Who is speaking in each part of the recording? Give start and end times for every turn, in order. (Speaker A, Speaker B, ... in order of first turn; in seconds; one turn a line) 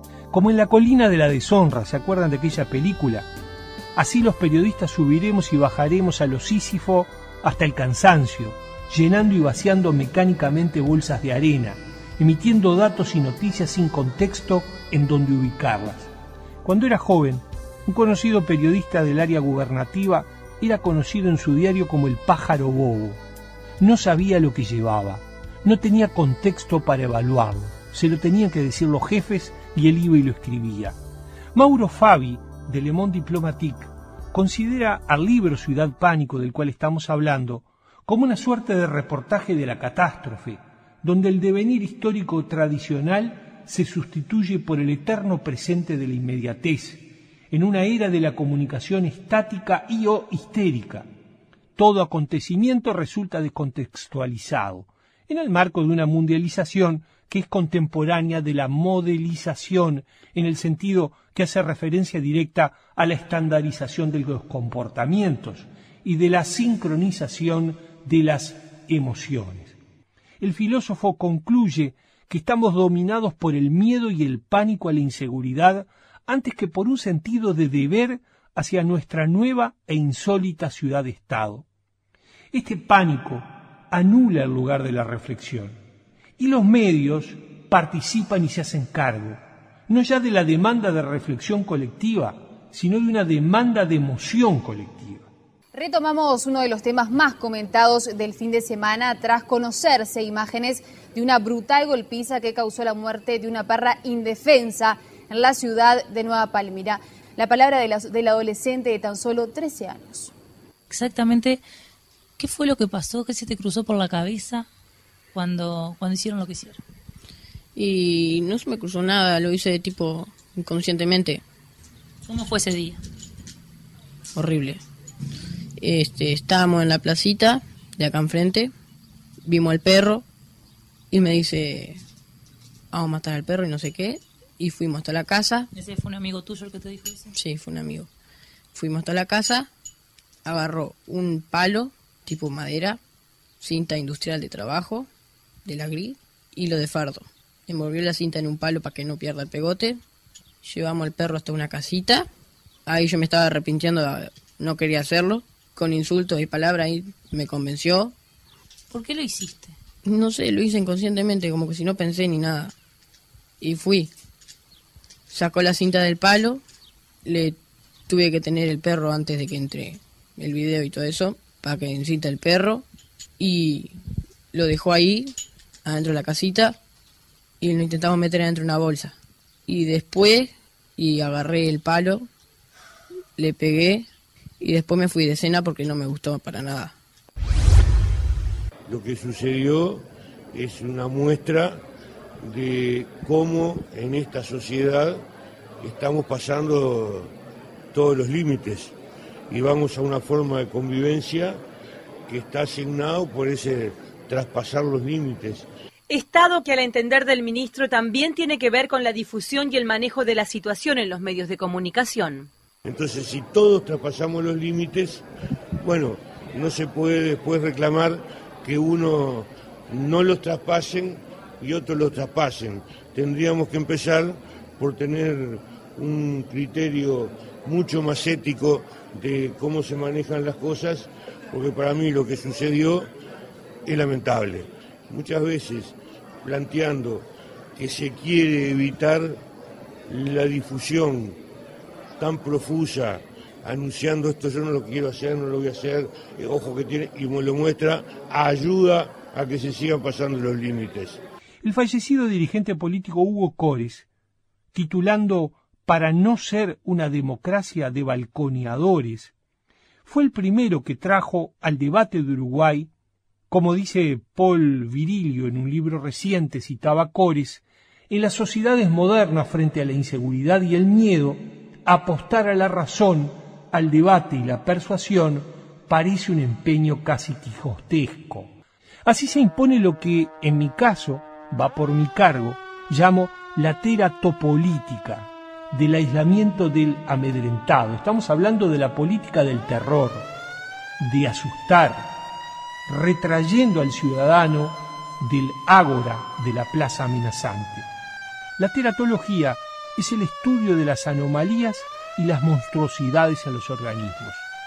Speaker A: 0.3-3.3
Speaker A: 4.0-16.1
Speaker A: 16.6-23.2
Speaker A: 23.8-31.0
Speaker A: 31.6-51.1
Speaker A: 51.8-69.8
Speaker A: 70.4-81.7
Speaker A: 82.5-85.8
Speaker A: 86.4-95.3
Speaker B: 95.7-110.3
Speaker C: 110.9-111.6
Speaker C: 112.4-114.7
Speaker C: 115.3-116.8
Speaker D: 117.8-121.4
Speaker C: 122.3-123.0
Speaker D: 124.4-124.8
Speaker D: 125.8-128.7
Speaker D: 129.5-130.2
Speaker D: 131.1-132.0
Speaker D: 132.9-135.7
Speaker C: 135.7-137.3
Speaker D: 137.3-138.1
Speaker D: 138.7-139.7
Speaker D: 140.5-143.0
Speaker D: 143.6-145.1
Speaker D: 145.7-150.0
Speaker D: 150.6-152.3
Speaker D: 152.9-158.1
Speaker C: 158.9-159.7
Speaker D: 160.1-162.7
Speaker D: 163.6-164.1
Speaker D: 165.3-166.6
Speaker D: 167.3-167.6
Speaker D: 168.1-172.8
Speaker D: 173.4-173.9
Speaker D: 174.5-175.3
Speaker D: 175.8-176.8
Speaker D: 177.6-179.2
Speaker D: 179.7-182.3
Speaker D: 183.4-184.1
Speaker D: 184.6-186.9
Speaker E: 188.9-190.0
Speaker E: 190.5-191.8
Speaker E: 192.4-195.2
Speaker E: 195.8-197.3
Speaker E: 197.9-198.9
Speaker E: 199.5-201.6
Speaker E: 202.3-205.7
Speaker F: 206.1-212.5
Speaker E: 212.9-215.2
Speaker E: 215.8-233.1
Speaker E: 233.9-235.9
Speaker E: 236.4-237.2
Speaker E: 237.8-239.4
Speaker E: 240.1-241.3
Speaker E: 242.2-251.2
Speaker A: 251.6-254.1
Speaker A: 254.7-259.3
Speaker A: 260.1-262.9
Speaker A: 263.5-278.5
Speaker A: 279.1-290.3
Speaker A: 291.0-292.2
Speaker A: 292.9-297.9
Speaker A: 298.6-304.5